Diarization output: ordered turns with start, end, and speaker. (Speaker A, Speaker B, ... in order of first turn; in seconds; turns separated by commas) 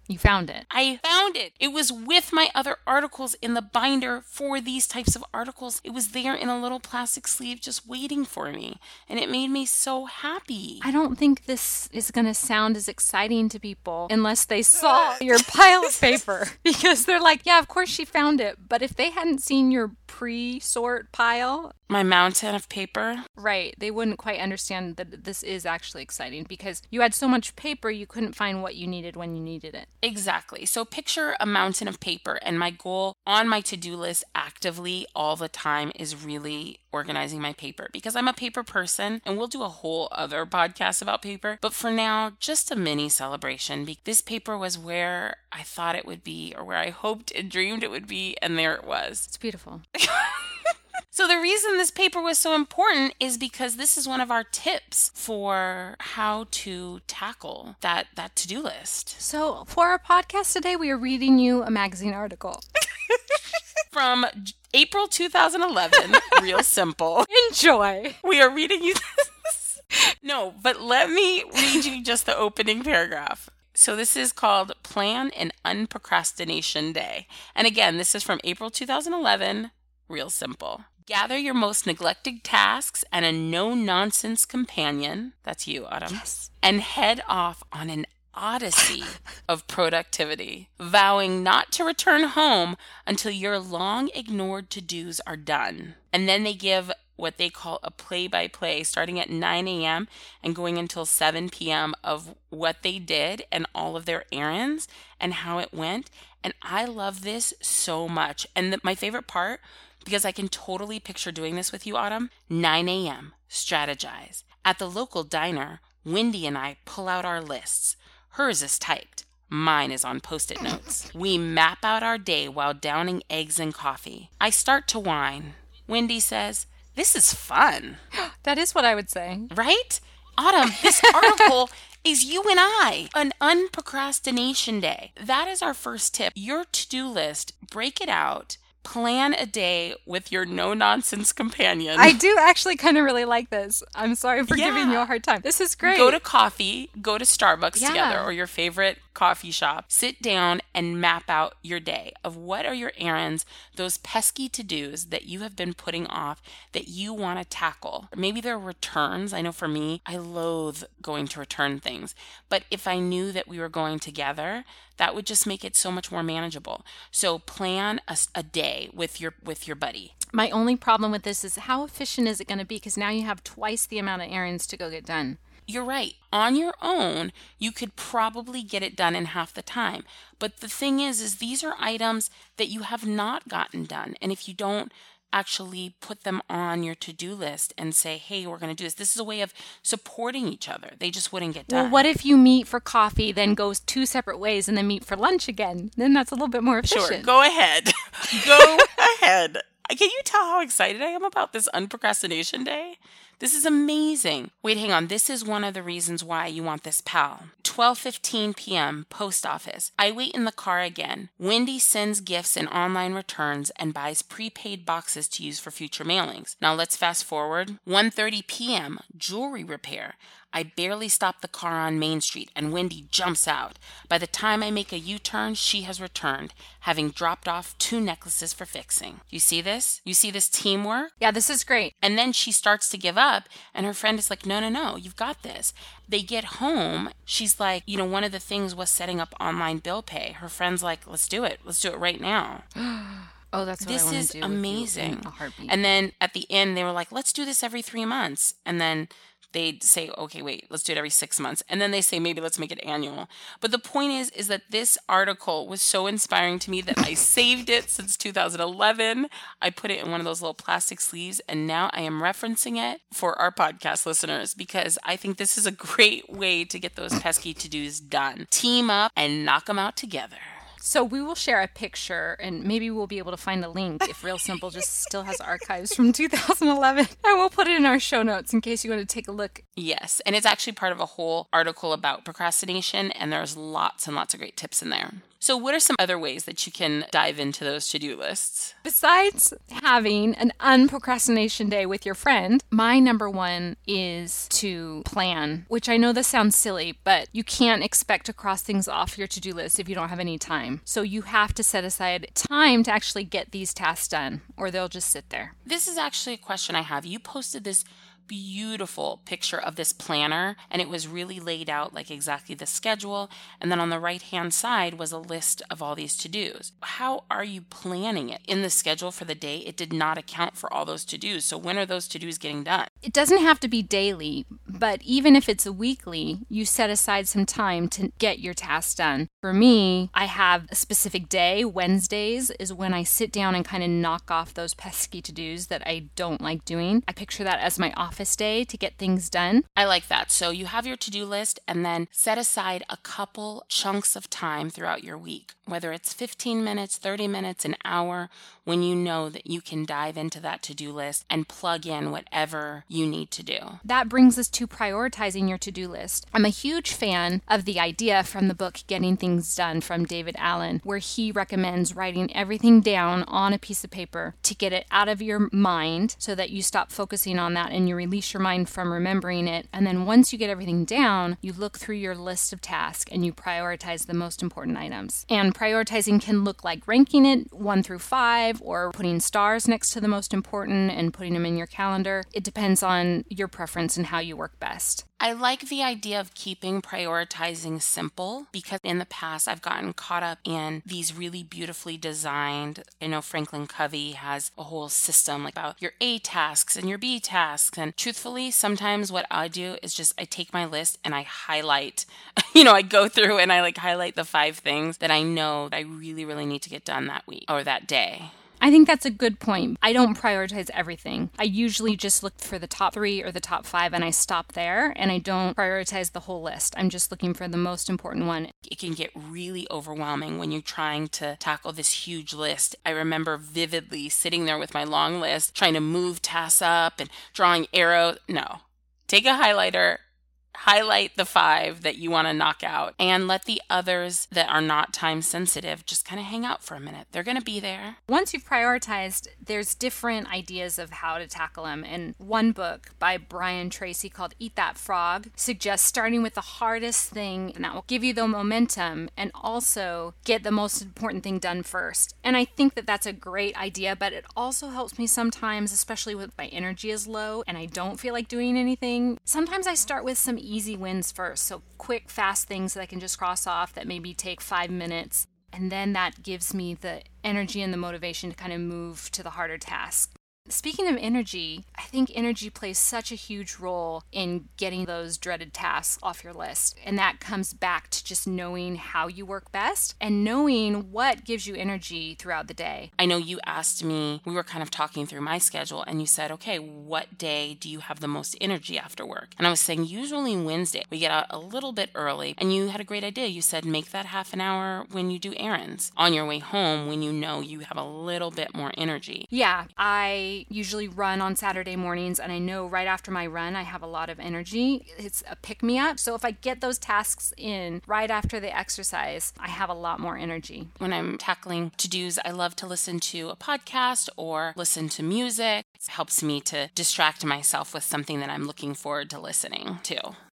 Speaker A: 0.1-0.7, Speaker B: 0.7-10.9, Speaker A: 10.8-21.7, Speaker B: 14.8-16.2, Speaker B: 21.9-23.3, Speaker A: 23.4-29.9, Speaker B: 30.0-49.3, Speaker A: 49.3-49.9, Speaker B: 50.0-59.2, Speaker A: 59.2-62.6, Speaker B: 63.9-67.3, Speaker A: 67.3-68.2, Speaker B: 68.2-128.0, Speaker A: 71.6-71.8, Speaker A: 86.1-86.5, Speaker A: 120.6-121.0, Speaker A: 128.1-129.5, Speaker B: 129.5-142.2, Speaker A: 130.8-131.5, Speaker A: 142.0-146.2, Speaker B: 144.5-145.1, Speaker B: 145.8-170.1, Speaker A: 147.8-148.3, Speaker A: 170.3-175.4, Speaker B: 175.7-192.1, Speaker A: 191.7-197.3, Speaker B: 196.9-231.1, Speaker A: 198.3-198.9, Speaker A: 231.2-231.9, Speaker B: 232.0-242.7, Speaker A: 242.8-245.8, Speaker B: 243.8-270.6, Speaker A: 270.8-279.6, Speaker B: 279.8-288.8, Speaker A: 288.9-305.5, Speaker B: 305.6-322.9, Speaker A: 323.0-339.7, Speaker B: 339.8-353.8, Speaker A: 353.8-385.1, Speaker B: 385.2-408.3, Speaker A: 408.6-418.5, Speaker B: 418.6-430.0, Speaker B: 430.6-438.0, Speaker A: 438.1-482.9, Speaker B: 483.0-499.3, Speaker A: 499.3-510.7, Speaker B: 510.8-520.2